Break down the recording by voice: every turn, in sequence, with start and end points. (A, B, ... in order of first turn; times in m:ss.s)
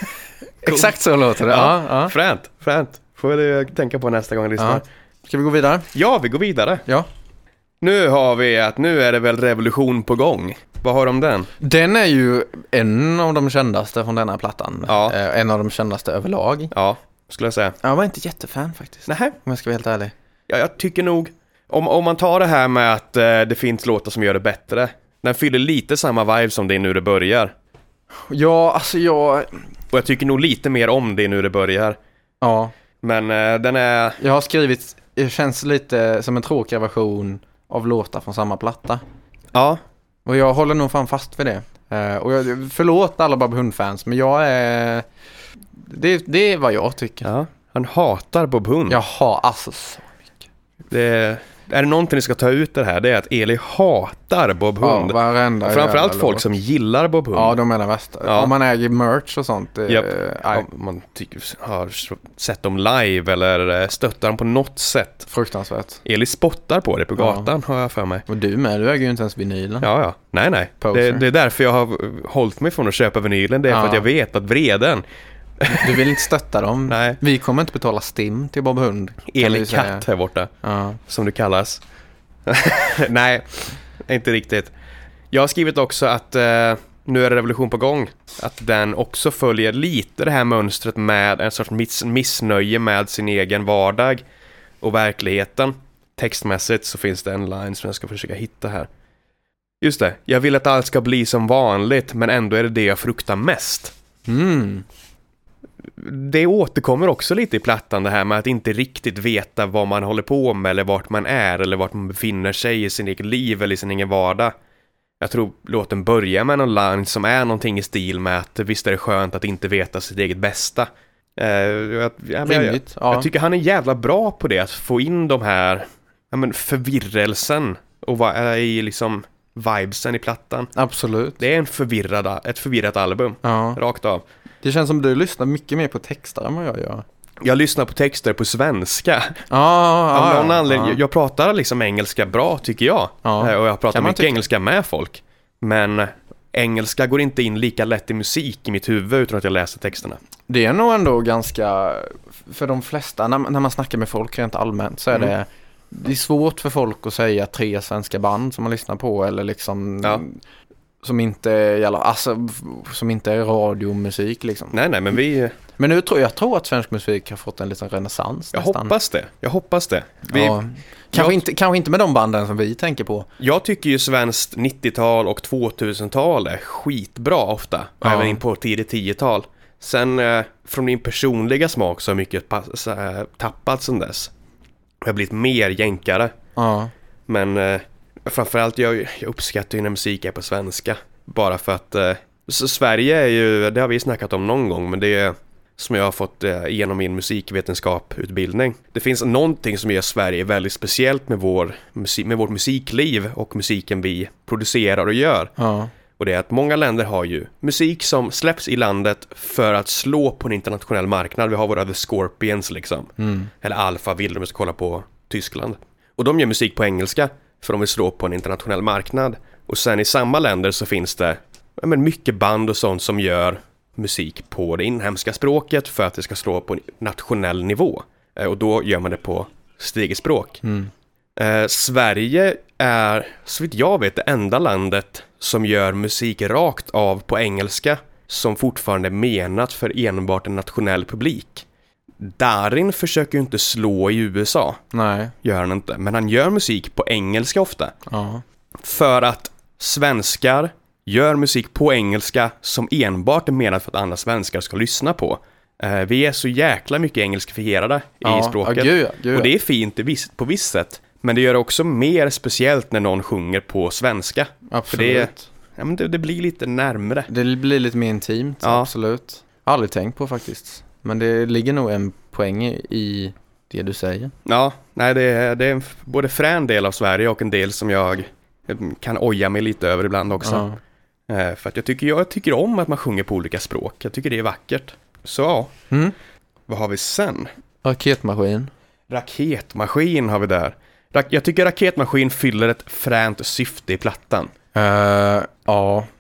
0:00.6-0:02.1 A
0:00.6-0:04.8 B
0:04.6-0:05.9 A
0:05.9-0:06.8 B
0:07.8-0:11.5 B
0:11.6-0:16.7 A
0:14.9-0:15.2 B
0:16.7-0:17.8 B
0:17.8-0:20.1 A
0:19.1-0:19.4 B
0:20.5-0:27.5 B
0:28.2-0:29.6 A
0:29.9-0:32.0 B
0:32.4-0:32.7 A
0:33.0-0:34.2 B
0:34.2-0:39.0 A
0:39.5-0:39.8 B
0:40.2-0:45.1 A
0:45.8-0:47.3 A
0:47.2-0:49.0 B
0:48.9-0:50.4 A
0:50.9-0:57.6 B
0:54.8-0:56.5 A
0:57.3-1:00.7 A
0:58.2-0:58.5 B
0:59.9-1:05.3 B
1:05.3-1:06.0 A
1:06.0-1:08.2 B
1:07.2-1:07.5 A
1:08.3-1:09.9 A
1:09.8-1:15.0 B
1:10.8-1:11.2 A
1:13.7-1:14.1 A
1:15.6-1:16.0 B
1:15.7-1:20.1 A
1:16.9-1:17.2 B
1:19.3-1:20.5 B
1:20.6-1:21.0 A
1:21.1-1:21.8 B
1:22.5-1:24.7 B
1:25.3-1:34.2 B
1:34.8-1:38.9 B
1:39.8-1:43.9 B
1:44.3-1:44.8 A
1:46.0-1:54.6 B
1:55.2-2:10.7 B
2:02.4-2:03.3 A
2:10.8-2:11.4 A
2:11.4-2:14.2 B
2:13.4-2:13.8 A
2:14.6-2:17.0 A
2:17.4-2:19.4 B
2:19.5-2:21.0 A
2:20.1-2:30.2 B
2:23.2-2:24.4 A
2:30.5-2:40.4 A
2:41.0-2:44.8 A
2:44.7-2:45.6 B
2:45.8-2:48.9 A
2:48.5-2:50.6 B
2:50.3-2:53.3 A
2:51.1-2:51.4 B
2:53.4-3:04.3 B
2:58.0-2:58.4 A
3:05.0-3:06.3 B
3:06.6-3:06.9 A
3:07.3-3:25.5 B
3:25.6-3:25.9 A
3:26.2-3:50.6 B
3:33.2-3:33.5 A
3:50.6-3:50.9 A
3:51.4-4:01.6 B
4:02.2-4:04.8 B
4:04.9-4:05.3 A
4:05.4-4:07.9 B
4:08.1-4:08.4 A
4:08.8-4:27.3 B
4:18.2-4:19.5 A
4:24.7-4:25.5 A
4:27.3-4:34.3 A
4:28.6-4:28.9 B
4:34.5-4:40.7 B
4:40.4-4:40.8 A
4:41.3-4:45.7 B
4:46.7-4:47.5 B
4:47.8-4:48.7 A
4:49.1-4:54.5 B
4:54.7-4:56.1 A